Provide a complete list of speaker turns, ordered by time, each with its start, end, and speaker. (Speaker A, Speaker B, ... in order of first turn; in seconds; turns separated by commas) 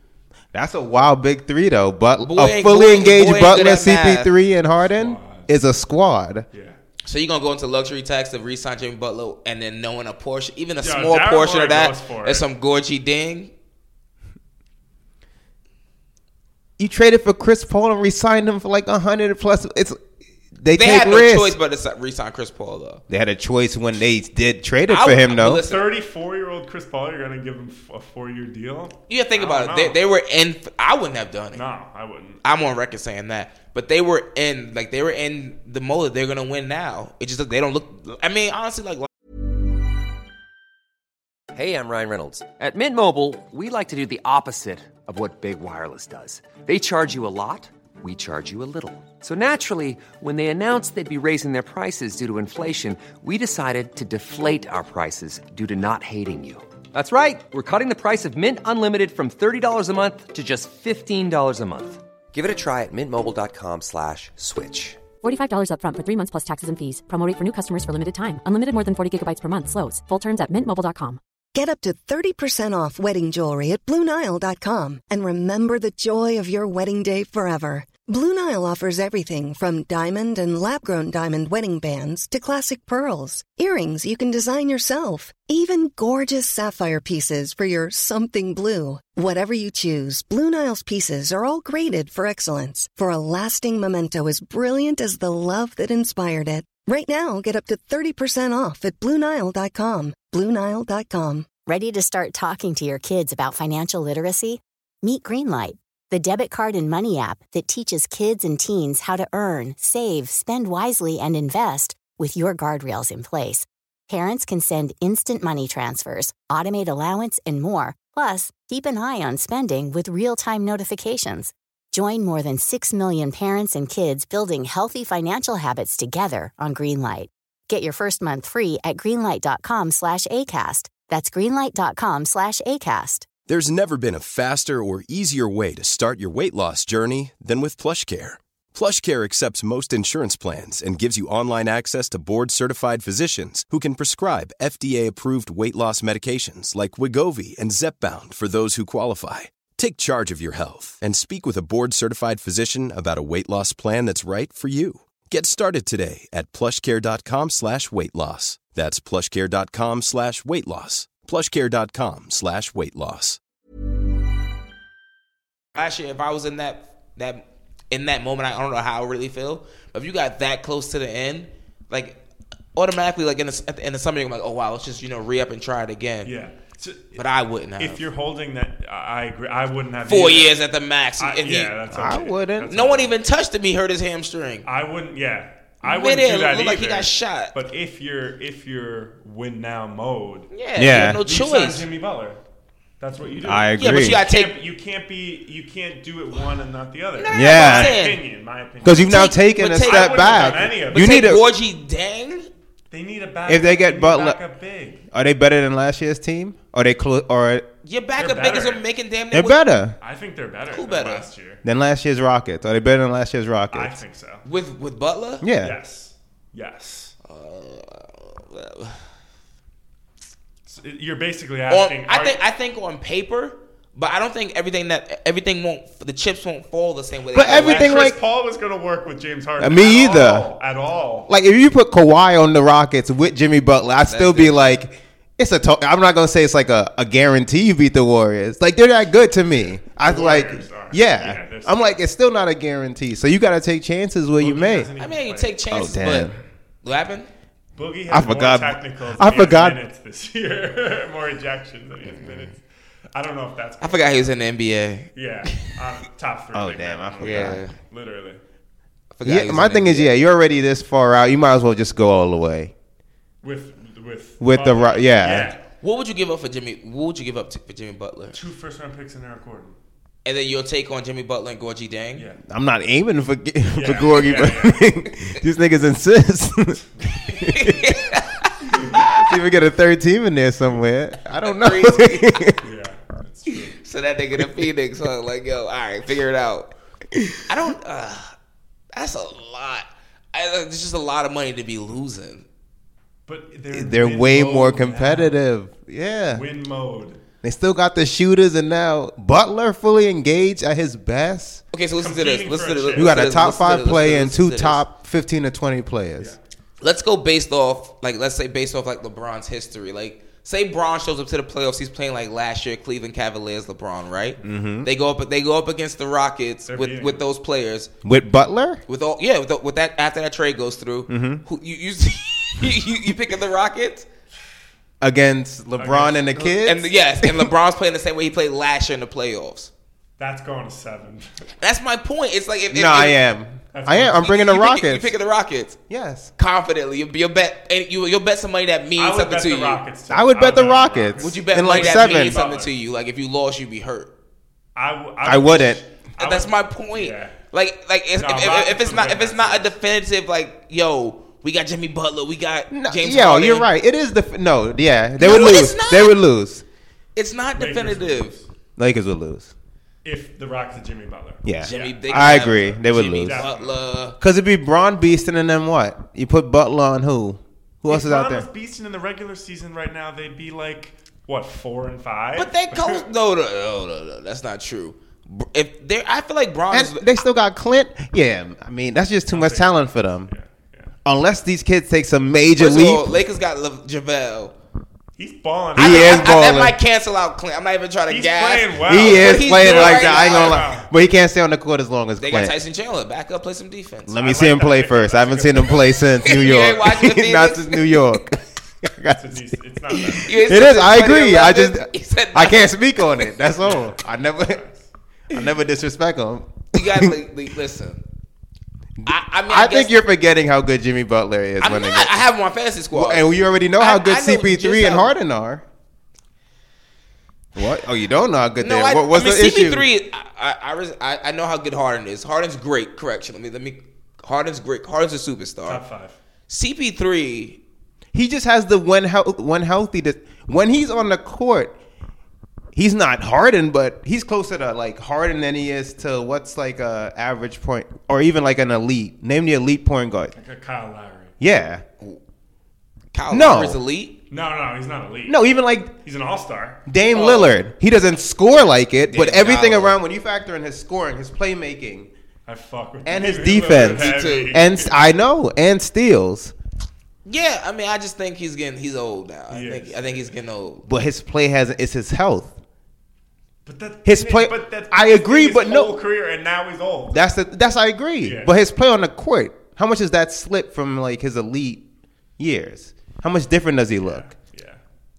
Speaker A: 0.5-6.5, Speaker B: 2.2-4.3, Speaker C: 4.8-5.5, Speaker C: 6.5-6.8, Speaker B: 7.0-13.5, Speaker C: 10.8-12.4, Speaker A: 16.8-20.0, Speaker A: 20.6-21.6, Speaker B: 20.8-23.0, Speaker A: 23.1-25.6, Speaker B: 24.9-25.9, Speaker C: 25.4-30.0, Speaker B: 29.1-31.6, Speaker C: 31.5-32.4, Speaker B: 32.4-39.1, Speaker D: 41.5-65.0, Speaker E: 65.2-71.2, Speaker F: 71.5-101.5, Speaker G: 101.7-133.2, Speaker H: 133.5-163.4, Speaker B: 165.7-172.2, Speaker B: 172.8-176.3, Speaker C: 176.2-177.2, Speaker B: 177.1-178.1, Speaker C: 177.8-180.5, Speaker B: 180.1-181.8, Speaker C: 181.2-183.1, Speaker A: 181.9-182.8, Speaker B: 182.7-184.7, Speaker C: 184.6-190.5, Speaker B: 185.8-187.5, Speaker B: 190.5-191.8, Speaker A: 190.8-191.2, Speaker C: 191.2-192.4, Speaker C: 193.0-201.4, Speaker A: 193.4-194.2, Speaker B: 193.8-194.6, Speaker B: 197.2-198.2, Speaker A: 197.3-198.0, Speaker A: 198.8-201.4, Speaker B: 199.0-202.5, Speaker C: 202.9-205.0, Speaker A: 203.5-204.4, Speaker A: 205.1-207.7, Speaker B: 207.8-209.6, Speaker C: 208.2-208.8, Speaker A: 209.3-210.0, Speaker C: 210.0-211.6, Speaker B: 210.7-211.3, Speaker A: 211.6-214.0, Speaker C: 213.7-214.4, Speaker B: 214.4-215.4, Speaker A: 215.4-215.8, Speaker C: 215.6-217.2, Speaker B: 217.2-219.0, Speaker C: 220.7-222.4, Speaker B: 221.7-228.1, Speaker A: 227.3-228.2, Speaker C: 227.3-231.3, Speaker A: 229.6-230.5, Speaker A: 231.3-244.9, Speaker B: 234.1-234.8, Speaker C: 240.0-241.8, Speaker C: 244.4-245.6, Speaker B: 245.0-246.3, Speaker A: 245.7-246.4, Speaker B: 246.8-247.3, Speaker C: 247.8-254.3, Speaker A: 248.1-249.8, Speaker B: 252.0-252.5, Speaker B: 253.8-255.7, Speaker C: 255.1-258.4, Speaker A: 256.5-257.6, Speaker B: 257.2-257.8, Speaker B: 259.1-260.1, Speaker A: 259.2-262.7, Speaker C: 263.4-265.6, Speaker A: 264.4-265.5, Speaker B: 265.8-268.4, Speaker C: 268.3-269.8, Speaker B: 270.2-272.2, Speaker C: 272.1-272.4, Speaker A: 272.5-277.8, Speaker C: 273.7-274.9, Speaker B: 277.5-279.3, Speaker C: 278.7-279.0, Speaker A: 279.0-282.6, Speaker B: 281.4-282.6, Speaker C: 282.6-283.8, Speaker B: 283.8-286.7, Speaker B: 287.5-288.3, Speaker B: 288.9-292.4, Speaker C: 293.2-295.4, Speaker A: 293.7-296.4, Speaker C: 296.3-297.2, Speaker A: 297.4-301.6, Speaker B: 301.7-304.8, Speaker C: 302.0-303.4, Speaker A: 302.9-306.3, Speaker B: 306.8-317.9, Speaker A: 314.4-314.9, Speaker C: 316.7-317.2, Speaker A: 318.0-318.8, Speaker B: 318.9-324.1, Speaker A: 321.1-321.4, Speaker A: 325.0-327.5, Speaker C: 325.8-326.4, Speaker B: 326.5-329.7, Speaker C: 330.2-331.5, Speaker B: 331.6-333.2, Speaker A: 332.7-335.2, Speaker C: 333.7-334.2, Speaker B: 334.2-335.8, Speaker A: 335.9-336.3, Speaker B: 336.4-339.8, Speaker C: 339.0-342.7, Speaker A: 340.1-342.4, Speaker B: 341.1-344.1, Speaker C: 344.7-347.4, Speaker A: 345.2-345.8, Speaker B: 346.2-353.7, Speaker C: 348.2-349.7, Speaker A: 352.7-356.6, Speaker B: 355.2-356.2, Speaker B: 357.1-358.3, Speaker C: 357.6-358.4, Speaker A: 358.8-359.5, Speaker C: 360.0-363.8, Speaker A: 361.4-363.5, Speaker B: 361.6-364.2, Speaker A: 364.2-368.5, Speaker C: 367.9-373.1, Speaker B: 372.3-377.1, Speaker A: 376.7-380.3, Speaker C: 379.3-380.9, Speaker A: 381.0-383.2, Speaker B: 382.6-384.5, Speaker C: 385.2-386.5, Speaker A: 385.8-386.8, Speaker B: 385.8-390.7, Speaker C: 388.1-390.9, Speaker A: 388.9-392.6, Speaker B: 392.2-394.2, Speaker A: 394.1-399.6, Speaker C: 394.2-396.4, Speaker B: 396.2-398.0, Speaker C: 399.2-400.6, Speaker B: 400.1-403.3, Speaker A: 400.4-404.6, Speaker C: 403.6-404.9, Speaker A: 405.3-407.1, Speaker B: 406.7-408.0, Speaker A: 409.0-412.1, Speaker B: 409.0-410.0, Speaker B: 411.6-415.1, Speaker A: 412.9-415.6, Speaker A: 417.5-419.9, Speaker B: 418.6-425.8, Speaker C: 425.6-426.2, Speaker B: 426.5-427.6, Speaker A: 428.1-431.8, Speaker A: 432.7-440.3, Speaker C: 440.3-441.3, Speaker A: 441.4-441.8, Speaker B: 443.1-444.2, Speaker A: 443.3-443.8, Speaker C: 444.3-445.4, Speaker A: 445.2-445.9, Speaker C: 446.0-446.8, Speaker A: 446.9-452.1, Speaker B: 447.1-447.6, Speaker B: 449.1-450.0, Speaker C: 452.4-455.0, Speaker A: 453.0-456.5, Speaker B: 453.7-454.6, Speaker B: 457.2-460.8, Speaker C: 459.5-460.3, Speaker A: 460.9-462.5, Speaker C: 463.6-467.2, Speaker A: 464.0-466.0, Speaker A: 467.1-471.8, Speaker C: 468.2-468.6, Speaker A: 472.4-474.3, Speaker C: 474.0-474.8